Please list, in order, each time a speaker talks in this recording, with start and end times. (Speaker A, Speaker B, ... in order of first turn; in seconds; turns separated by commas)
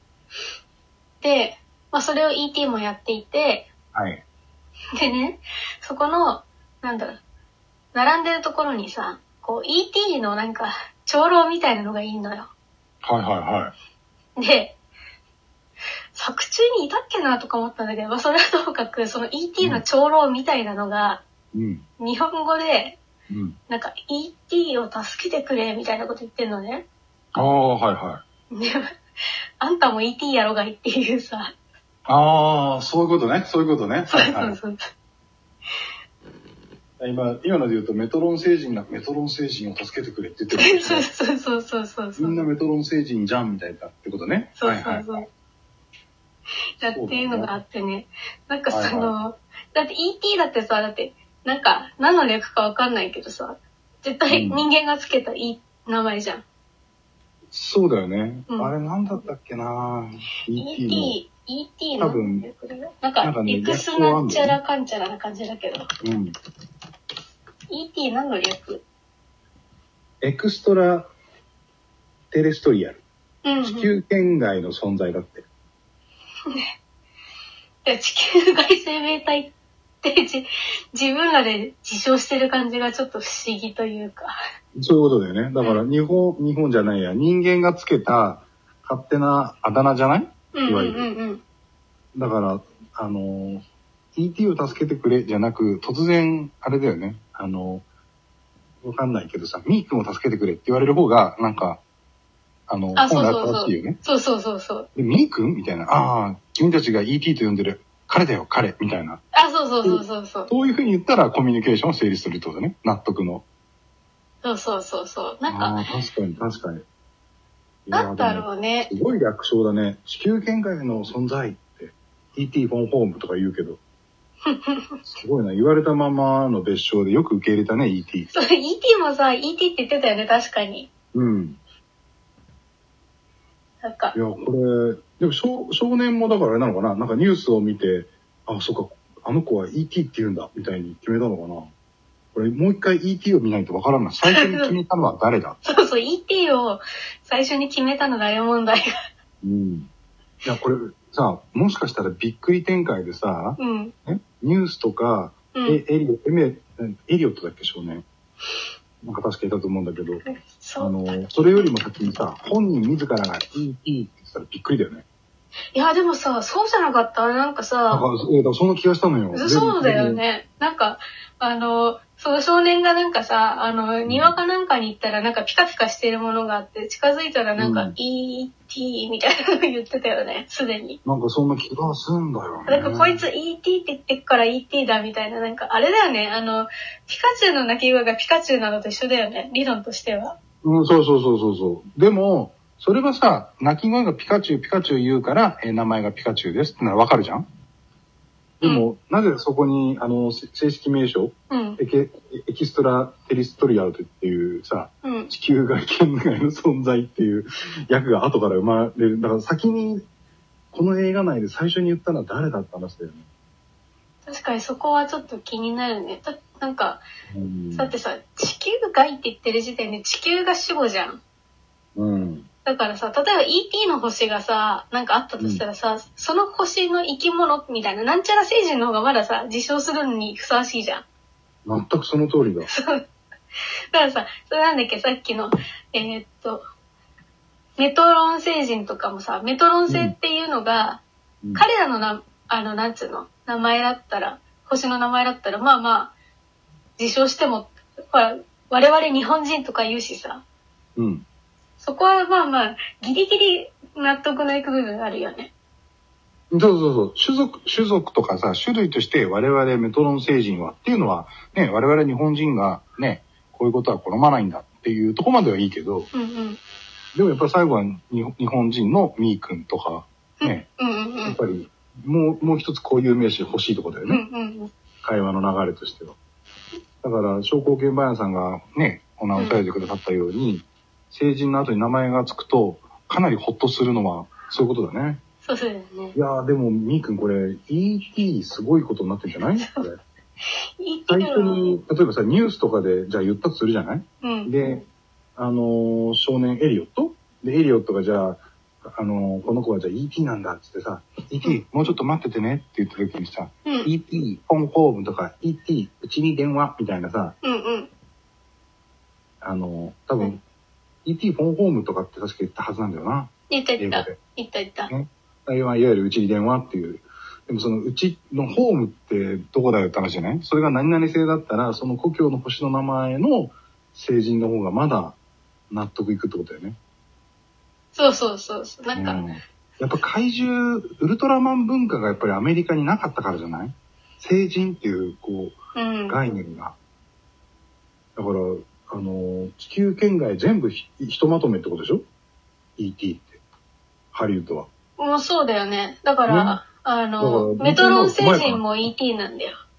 Speaker A: 1.2-3.7, Speaker B: 3.9-4.2, Speaker A: 5.0-7.2, Speaker A: 7.9-12.5, Speaker B: 13.0-13.7, Speaker A: 14.4-14.8, Speaker A: 16.1-21.2, Speaker B: 21.5-21.8, Speaker A: 22.0-23.0, Speaker B: 23.3-23.6, Speaker A: 23.7-26.9, Speaker B: 27.3-28.2, Speaker A: 28.5-28.9, Speaker A: 29.6-31.5, Speaker B: 32.0-34.6, Speaker A: 34.1-34.8, Speaker B: 37.0-41.1, Speaker A: 40.5-42.4, Speaker B: 42.2-45.2, Speaker A: 44.6-45.2, Speaker A: 46.8-56.4, Speaker B: 46.8-47.5, Speaker B: 48.7-49.1, Speaker B: 54.3-54.6, Speaker B: 57.5-61.1, Speaker A: 60.6-65.9, Speaker B: 62.0-62.5, Speaker B: 63.2-64.6, Speaker B: 66.0-66.3, Speaker A: 67.7-68.8, Speaker B: 70.2-71.1, Speaker B: 72.3-73.0, Speaker A: 73.4-73.9, Speaker B: 73.6-75.5, Speaker A: 77.8-84.3, Speaker B: 84.8-91.1, Speaker A: 90.5-91.4, Speaker B: 92.1-93.6, Speaker B: 94.2-97.8, Speaker B: 98.8-101.8, Speaker B: 102.7-104.0, Speaker A: 103.0-104.9, Speaker B: 105.0-109.2, Speaker A: 109.3-110.5, Speaker B: 109.8-113.5, Speaker A: 114.4-115.9, Speaker B: 115.5-116.8, Speaker B: 117.8-123.8, Speaker A: 117.9-118.9, Speaker A: 124.5-124.9, Speaker B: 125.0-128.3, Speaker A: 128.3-130.9, Speaker B: 131.1-131.6, Speaker A: 133.8-134.2, Speaker B: 134.1-141.7, Speaker B: 142.3-145.6, Speaker A: 144.2-144.7, Speaker A: 145.6-148.9, Speaker B: 149.4-149.9, Speaker B: 150.4-158.0, Speaker A: 153.6-153.9, Speaker A: 155.5-155.8, Speaker B: 159.0-160.2, Speaker A: 160.2-161.8, Speaker B: 160.8-165.0, Speaker A: 165.7-168.1, Speaker B: 167.9-170.2, Speaker A: 169.3-181.0, Speaker B: 174.1-174.4, Speaker B: 177.6-177.9, Speaker B: 181.0-183.2, Speaker A: 182.7-190.4, Speaker B: 190.6-197.4, Speaker B: 198.6-210.0, Speaker A: 198.6-198.9, Speaker A: 201.5-201.8, Speaker A: 205.0-205.3, Speaker B: 210.7-213.3, Speaker A: 214.2-217.0, Speaker B: 217.3-217.9, Speaker A: 217.7-221.2, Speaker B: 221.9-222.5, Speaker A: 222.6-231.0, Speaker B: 231.6-232.7, Speaker A: 232.7-233.0, Speaker A: 233.9-236.6, Speaker A: 237.8-241.0, Speaker B: 239.9-240.2, Speaker A: 241.6-246.1, Speaker A: 247.0-250.4, Speaker B: 250.9-251.2, Speaker A: 251.8-255.5, Speaker B: 256.5-266.1, Speaker A: 266.1-266.6, Speaker B: 267.1-270.6, Speaker A: 270.4-271.4, Speaker B: 271.2-274.2, Speaker A: 274.1-274.7, Speaker B: 275.0-276.2, Speaker B: 277.0-285.2, Speaker A: 279.3-279.6, Speaker A: 285.4-286.1, Speaker B: 286.1-290.0, Speaker A: 289.6-289.8, Speaker A: 290.5-291.8, Speaker B: 291.1-294.8, Speaker A: 294.2-294.5, Speaker B: 295.4-307.4, Speaker A: 301.4-301.9, Speaker A: 303.6-303.9, Speaker A: 307.4-307.9, Speaker B: 309.4-310.4, Speaker B: 311.0-314.1, Speaker A: 313.5-314.9, Speaker B: 314.9-325.2, Speaker B: 325.7-326.8, Speaker A: 327.9-329.2, Speaker B: 328.9-336.8, Speaker A: 335.7-336.2, Speaker B: 338.1-342.0, Speaker B: 342.8-343.4, Speaker B: 344.1-344.7, Speaker A: 345.0-349.5, Speaker B: 346.2-346.6, Speaker B: 347.2-348.6